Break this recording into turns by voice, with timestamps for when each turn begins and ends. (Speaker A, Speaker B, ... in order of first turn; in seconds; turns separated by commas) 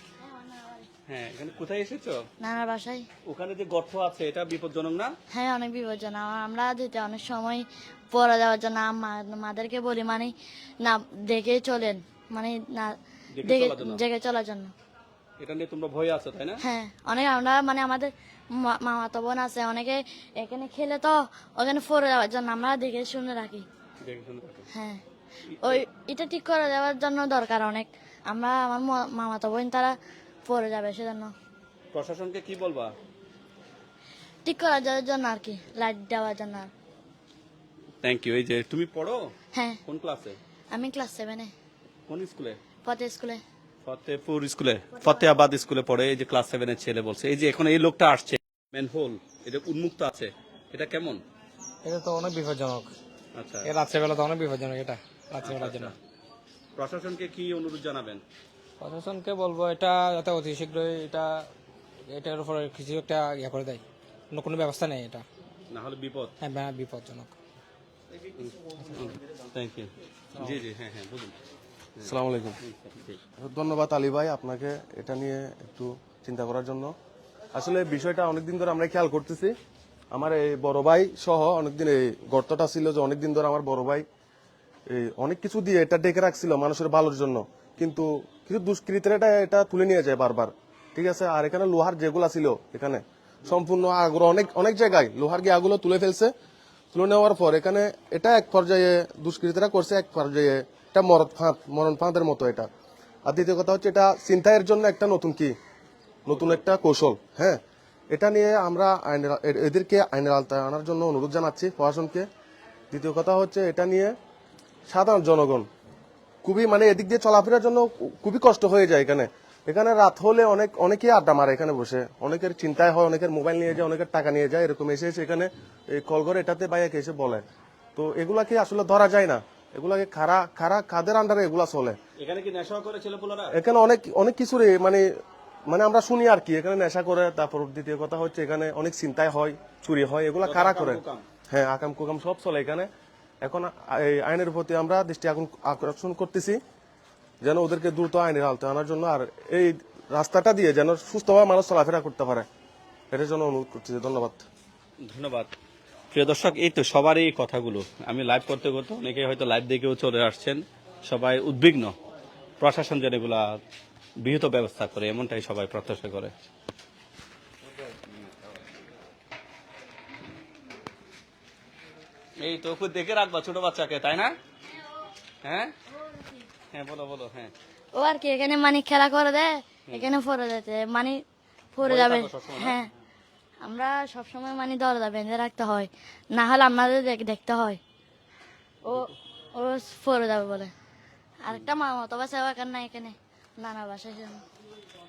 Speaker A: 0.2-0.8, Speaker B: 1.1-2.2, Speaker A: 2.4-3.0, Speaker B: 3.2-5.1, Speaker A: 5.3-10.3, Speaker A: 10.8-14.7, Speaker B: 13.3-14.0, Speaker B: 15.4-16.6, Speaker A: 16.6-23.6, Speaker B: 24.0-24.7, Speaker A: 24.7-25.0, Speaker B: 25.5-25.8, Speaker A: 25.6-31.3, Speaker B: 31.9-32.9, Speaker A: 34.5-36.7, Speaker B: 38.0-39.3, Speaker B: 39.9-40.4, Speaker A: 40.7-41.5, Speaker B: 42.1-42.6, Speaker A: 42.8-43.4, Speaker B: 43.8-51.2, Speaker C: 51.8-52.9, Speaker B: 53.3-53.7, Speaker C: 53.6-55.9, Speaker B: 55.4-55.9, Speaker B: 56.8-58.2, Speaker C: 58.8-61.5, Speaker C: 62.1-65.2, Speaker B: 65.7-66.3, Speaker C: 66.4-67.3, Speaker B: 68.9-71.3, Speaker B: 72.0-73.2, Speaker D: 72.0-72.6, Speaker D: 73.4-76.9, Speaker D: 77.5-79.5, Speaker D: 80.1-84.0, Speaker D: 84.9-96.3, Speaker D: 96.9-102.7, Speaker D: 103.2-105.5, Speaker D: 106.3-107.6, Speaker D: 108.1-112.2, Speaker D: 112.9-114.1, Speaker D: 114.9-115.7, Speaker D: 116.4-127.4, Speaker D: 128.0-132.0, Speaker B: 132.2-133.6, Speaker D: 133.5-135.0, Speaker D: 135.7-142.9, Speaker B: 140.4-141.2, Speaker D: 143.4-146.6, Speaker D: 147.4-152.4, Speaker D: 153.1-154.4, Speaker B: 155.0-155.5, Speaker B: 156.1-161.9, Speaker B: 162.6-163.6, Speaker B: 164.2-166.3, Speaker B: 172.4-174.3, Speaker B: 175.4-175.7, Speaker B: 176.7-177.5, Speaker A: 177.9-181.2, Speaker A: 181.7-182.9, Speaker B: 181.8-182.8, Speaker A: 183.6-187.8, Speaker A: 188.8-190.7, Speaker A: 191.4-194.4